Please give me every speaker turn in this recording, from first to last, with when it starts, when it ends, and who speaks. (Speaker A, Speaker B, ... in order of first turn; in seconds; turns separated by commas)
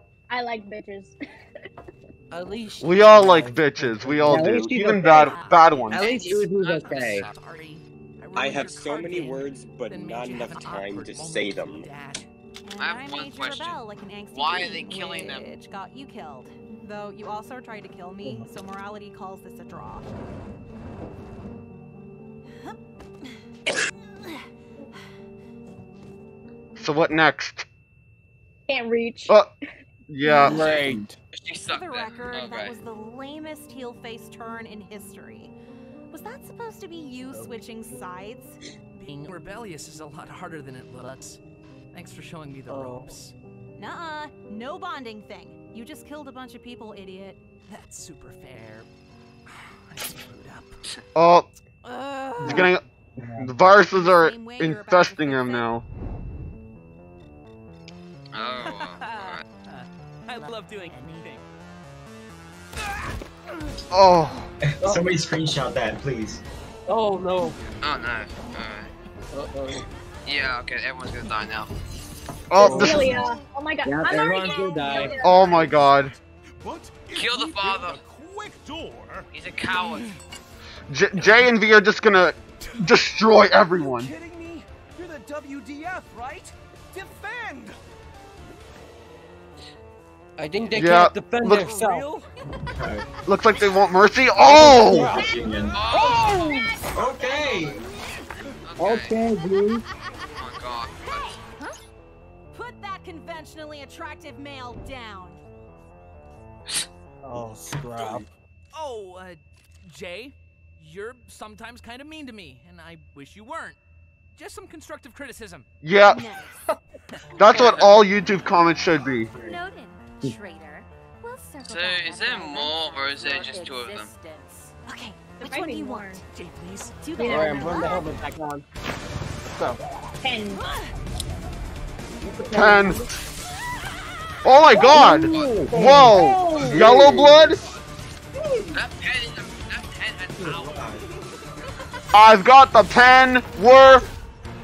Speaker A: 0.3-1.1, Speaker B: 2.3-4.7, Speaker C: 2.8-6.1, Speaker D: 4.3-5.3, Speaker E: 5.1-6.2, Speaker D: 5.9-7.3, Speaker F: 6.0-7.3, Speaker E: 6.8-12.3, Speaker G: 8.3-11.9, Speaker H: 12.6-20.1, Speaker F: 12.8-13.8, Speaker F: 14.3-15.5, Speaker B: 18.2-18.5, Speaker C: 26.8-27.6, Speaker A: 28.7-29.4, Speaker C: 30.1-30.9, Speaker B: 30.3-31.2, Speaker F: 30.5-30.8, Speaker F: 31.3-32.8, Speaker H: 31.6-35.5, Speaker H: 36.1-38.5, Speaker B: 37.2-37.5, Speaker E: 39.0-41.4, Speaker E: 41.9-43.3, Speaker B: 42.7-43.2, Speaker H: 43.8-47.4, Speaker E: 47.7-48.9, Speaker E: 49.5-50.8, Speaker C: 51.1-51.5, Speaker E: 52.4-52.7, Speaker B: 52.4-53.5, Speaker C: 52.4-55.8, Speaker H: 53.9-55.7, Speaker F: 58.3-59.4, Speaker E: 58.7-61.4, Speaker C: 63.9-64.5, Speaker G: 64.6-66.4, Speaker B: 64.8-65.2, Speaker B: 66.9-67.6, Speaker F: 67.8-68.9, Speaker B: 69.3-69.9, Speaker F: 70.2-71.7, Speaker C: 72.5-73.2, Speaker A: 72.6-75.4, Speaker D: 72.6-73.1, Speaker B: 72.9-73.2, Speaker D: 73.8-75.3, Speaker C: 75.2-76.2, Speaker I: 75.2-79.3, Speaker F: 77.1-78.0, Speaker F: 79.3-80.1, Speaker E: 79.8-80.1, Speaker C: 80.9-84.1, Speaker J: 83.8-84.1, Speaker J: 85.4-87.6, Speaker B: 90.4-92.1, Speaker C: 90.7-91.7, Speaker E: 91.6-92.2, Speaker G: 92.6-93.1, Speaker C: 93.2-95.2, Speaker B: 94.4-96.6, Speaker G: 94.4-95.8, Speaker F: 95.7-96.7, Speaker G: 96.9-97.8, Speaker F: 98.6-99.1, Speaker D: 98.8-99.8, Speaker F: 100.4-101.4, Speaker H: 101.0-101.4, Speaker H: 102.5-105.4, Speaker B: 107.2-108.2, Speaker E: 108.7-113.8, Speaker E: 114.3-115.7, Speaker C: 115.8-116.2, Speaker H: 116.0-116.6, Speaker C: 117.4-119.3, Speaker F: 117.5-118.0, Speaker G: 118.9-119.6, Speaker K: 119.3-124.7, Speaker F: 121.6-124.1, Speaker H: 124.8-127.8, Speaker A: 125.4-126.2, Speaker E: 127.0-127.6, Speaker K: 127.0-128.0, Speaker A: 127.2-128.1, Speaker B: 127.2-128.6, Speaker A: 130.2-130.7, Speaker E: 130.6-130.9, Speaker B: 132.2-133.1, Speaker C: 132.5-133.0, Speaker C: 134.4-137.6, Speaker D: 134.8-135.8, Speaker F: 135.3-135.5, Speaker B: 135.6-137.2, Speaker A: 135.7-137.3, Speaker B: 138.4-138.7, Speaker F: 138.7-141.0, Speaker G: 140.4-141.0, Speaker C: 142.1-144.0